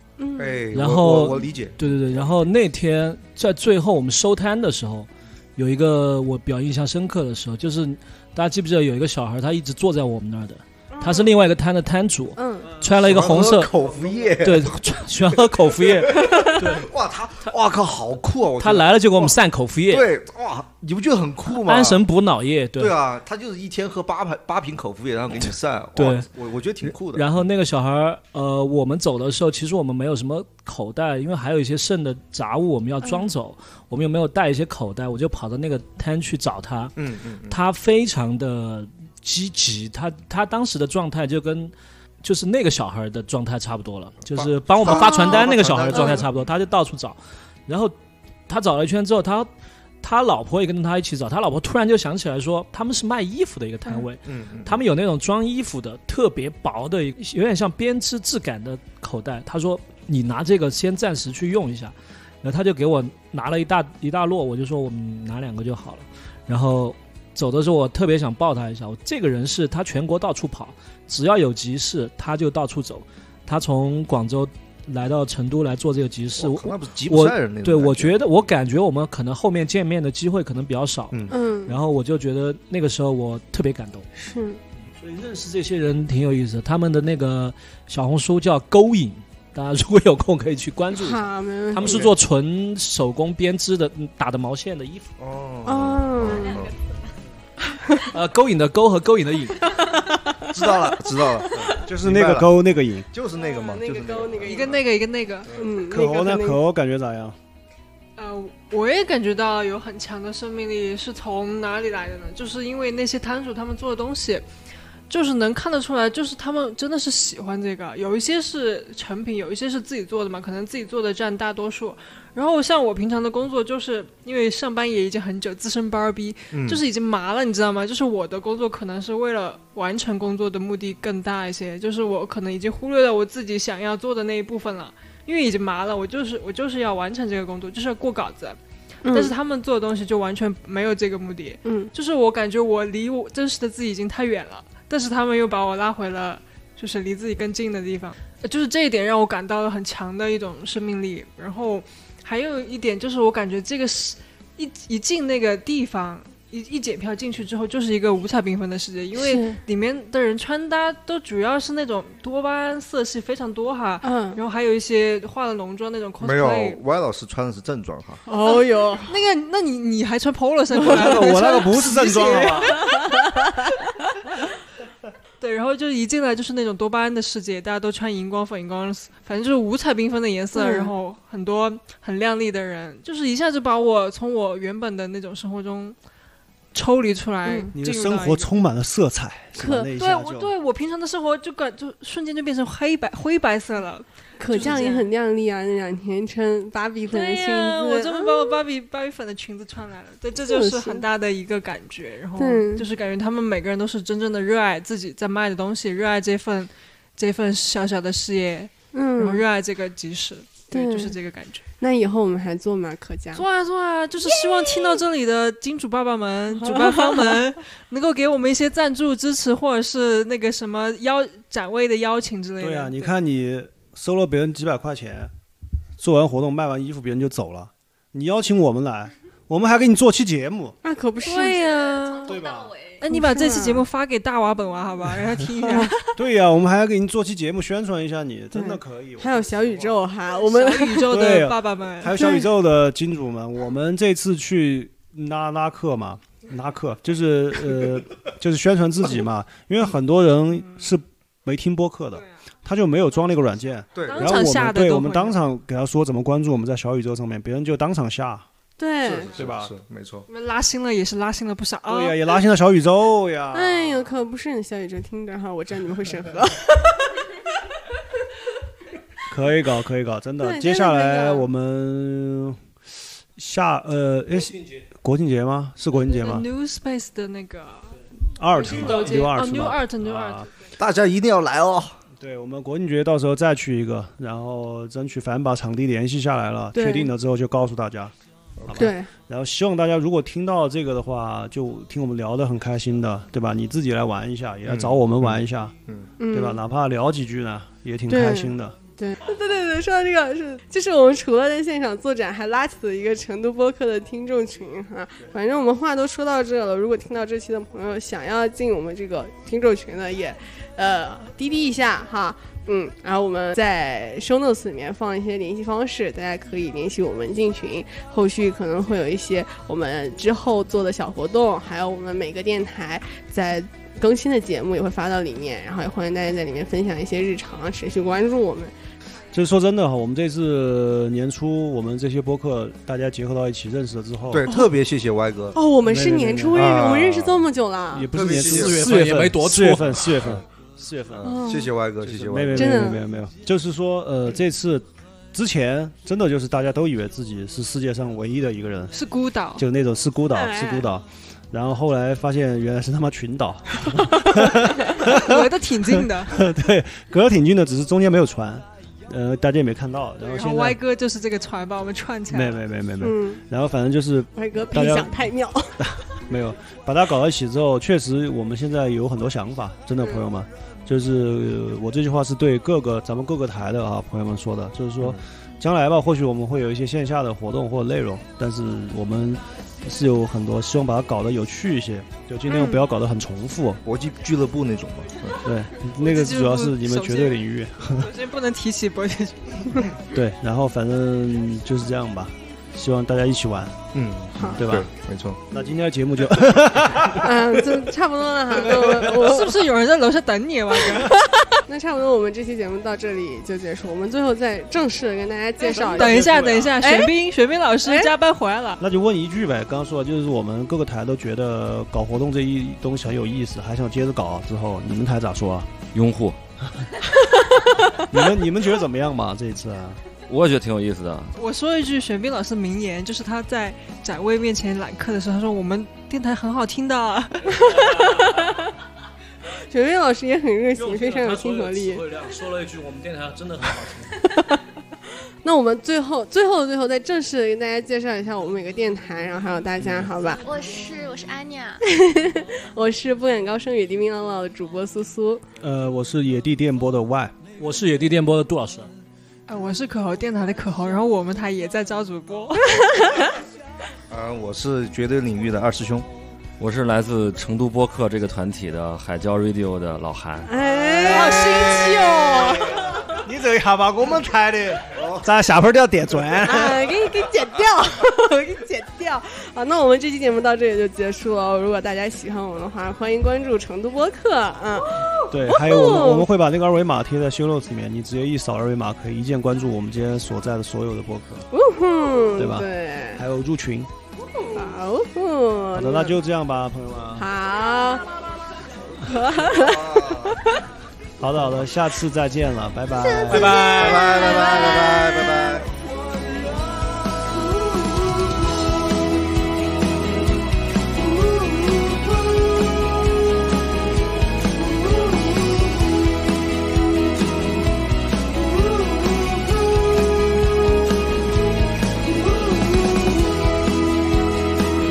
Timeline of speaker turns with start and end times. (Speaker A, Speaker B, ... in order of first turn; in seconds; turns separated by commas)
Speaker A: 0.2-0.7, Speaker B: 0.4-2.2, Speaker C: 0.7-13.7, Speaker A: 10.9-11.3, Speaker A: 12.3-12.8, Speaker B: 13.0-14.8, Speaker C: 14.4-16.9, Speaker B: 15.3-19.4, Speaker A: 16.1-16.7, Speaker C: 18.6-20.1, Speaker B: 19.9-22.0, Speaker C: 21.4-23.0, Speaker B: 22.8-27.4, Speaker C: 25.4-26.3, Speaker C: 26.8-37.0, Speaker A: 33.0-33.3, Speaker B: 37.0-37.6, Speaker C: 37.5-47.9, Speaker B: 44.2-46.2, Speaker A: 44.9-45.4, Speaker A: 45.9-46.2, Speaker C: 48.5-49.5, Speaker C: 50.0-84.1, Speaker B: 54.2-54.8, Speaker B: 76.4-78.3, Speaker A: 81.3-81.8, Speaker A: 84.2-84.6, Speaker C: 85.0-95.1, Speaker A: 90.9-92.1, Speaker B: 91.8-92.1, Speaker B: 95.2-96.7, Speaker A: 95.6-96.6, Speaker A: 97.7-98.1, Speaker C: 98.1-99.9, Speaker A: 99.7-101.8, Speaker B: 100.5-104.9, Speaker D: 101.8-103.1, Speaker A: 103.3-104.8, Speaker E: 104.5-105.5, Speaker B: 105.4-105.8, Speaker A: 105.5-106.6, Speaker D: 105.9-107.4, Speaker E: 108.2-114.5, Speaker E: 115.1-166.8, Speaker B: 126.5-126.8, Speaker A: 139.0-139.3, Speaker A: 141.6-141.9, Speaker A: 159.2-159.6, Speaker A: 164.0-164.4, Speaker B: 166.2-168.2, Speaker A: 168.3-169.1, Speaker E: 168.3-173.2, Speaker A: 170.7-171.3, Speaker D: 170.8-172.9, Speaker A: 172.4-173.7, Speaker E: 175.4-186.0, Speaker A: 180.5-180.9, Speaker E: 186.7-188.5, Speaker A: 187.4-187.7, Speaker D: 187.7-190.5, Speaker A: 189.6-189.9, Speaker E: 189.9-195.1, Speaker A: 194.4-198.6, Speaker E: 197.1-211.6, Speaker A: 200.4-201.1, Speaker A: 202.4-202.9, Speaker A: 208.9-209.4, Speaker A: 210.7-211.2, Speaker A: 211.8-213.4, Speaker E: 213.3-223.1, Speaker A: 216.6-217.4, Speaker D: 222.6-225.3, Speaker D: 226.0-230.8, Speaker A: 230.8-231.8, Speaker E: 231.2-232.4, Speaker F: 231.5-233.0, Speaker D: 232.3-232.7, Speaker E: 233.0-236.2, Speaker A: 233.1-233.8, Speaker A: 235.6-235.9, Speaker D: 236.1-240.0, Speaker A: 238.5-241.3, Speaker E: 240.3-242.4, Speaker D: 241.1-258.4, Speaker A: 242.1-242.5, Speaker B: 253.9-254.4, Speaker E: 254.0-255.4, Speaker A: 258.8-259.3, Speaker B: 259.1-260.2, Speaker D: 259.1-259.7, Speaker E: 260.3-262.4, Speaker D: 261.9-264.1, Speaker A: 263.5-267.2, Speaker D: 269.3-272.6, Speaker A: 270.4-271.4, Speaker D: 273.4-276.5, Speaker E: 276.0-277.9, Speaker D: 278.3-280.5, Speaker E: 278.5-280.5, Speaker B: 280.8-282.0, Speaker D: 282.2-288.1, Speaker A: 286.7-287.1, Speaker B: 288.6-288.9, Speaker D: 288.6-295.7, Speaker A: 288.8-289.1, Speaker B: 294.6-296.1, Speaker A: 296.2-296.6, Speaker D: 296.3-298.8, Speaker A: 298.1-328.7, Speaker D: 329.3-334.4, Speaker B: 334.3-335.6, Speaker A: 335.5-338.1, Speaker D: 335.8-336.7, Speaker B: 336.5-337.5, Speaker D: 337.9-341.4, Speaker B: 338.1-338.8, Speaker C: 338.3-340.3, Speaker B: 341.2-342.9, Speaker A: 341.2-341.7, Speaker D: 342.0-349.0, Speaker A: 342.5-343.0, Speaker E: 348.9-349.6, Speaker D: 349.6-360.8, Speaker A: 350.3-350.9, Speaker E: 354.9-356.4, Speaker E: 360.2-362.6, Speaker D: 362.3-365.1, Speaker A: 363.0-363.4, Speaker A: 364.3-365.9, Speaker D: 365.8-383.8, Speaker A: 382.5-382.8, Speaker B: 383.8-385.4, Speaker D: 385.4-388.1, Speaker E: 386.0-389.9, Speaker D: 390.1-393.8, Speaker B: 393.9-395.4, Speaker A: 394.4-394.6, Speaker D: 394.5-394.9, Speaker D: 395.5-397.9, Speaker A: 397.1-399.7, Speaker D: 398.5-399.3, Speaker E: 399.2-401.2, Speaker A: 400.9-407.2, Speaker E: 405.6-408.8, Speaker D: 405.7-406.9, Speaker A: 407.8-408.1, Speaker D: 408.8-415.8, Speaker G: 415.9-416.4, Speaker D: 418.1-420.0, Speaker G: 420.3-421.3, Speaker E: 421.4-427.9, Speaker C: 427.4-428.5, Speaker A: 427.8-428.4, Speaker A: 429.7-432.0, Speaker C: 430.8-434.3, Speaker A: 434.2-434.6, Speaker A: 435.4-440.4, Speaker F: 440.4-441.8, Speaker A: 441.8-445.4, Speaker D: 445.6-447.4, Speaker C: 447.6-448.9, Speaker E: 449.5-452.9, Speaker A: 452.8-453.2, Speaker B: 454.1-456.1, Speaker G: 456.6-460.5, Speaker A: 460.5-463.2, Speaker D: 461.0-462.0, Speaker B: 461.2-462.9, Speaker D: 463.2-466.9, Speaker B: 464.9-465.3, Speaker A: 466.4-476.3, Speaker D: 475.3-481.5, Speaker A: 481.5-483.2, Speaker D: 482.4-483.9, Speaker A: 484.4-486.1, Speaker D: 485.7-487.3, Speaker A: 487.1-488.1, Speaker A: 489.0-490.5, Speaker B: 489.5-490.4, Speaker D: 491.2-494.3, Speaker A: 492.9-495.5, Speaker B: 493.3-495.7, Speaker C: 493.5-494.0, Speaker H: 495.8-499.3, Speaker H: 500.9-503.4, Speaker H: 504.5-505.8, Speaker H: 508.3-510.8, Speaker H: 512.0-513.5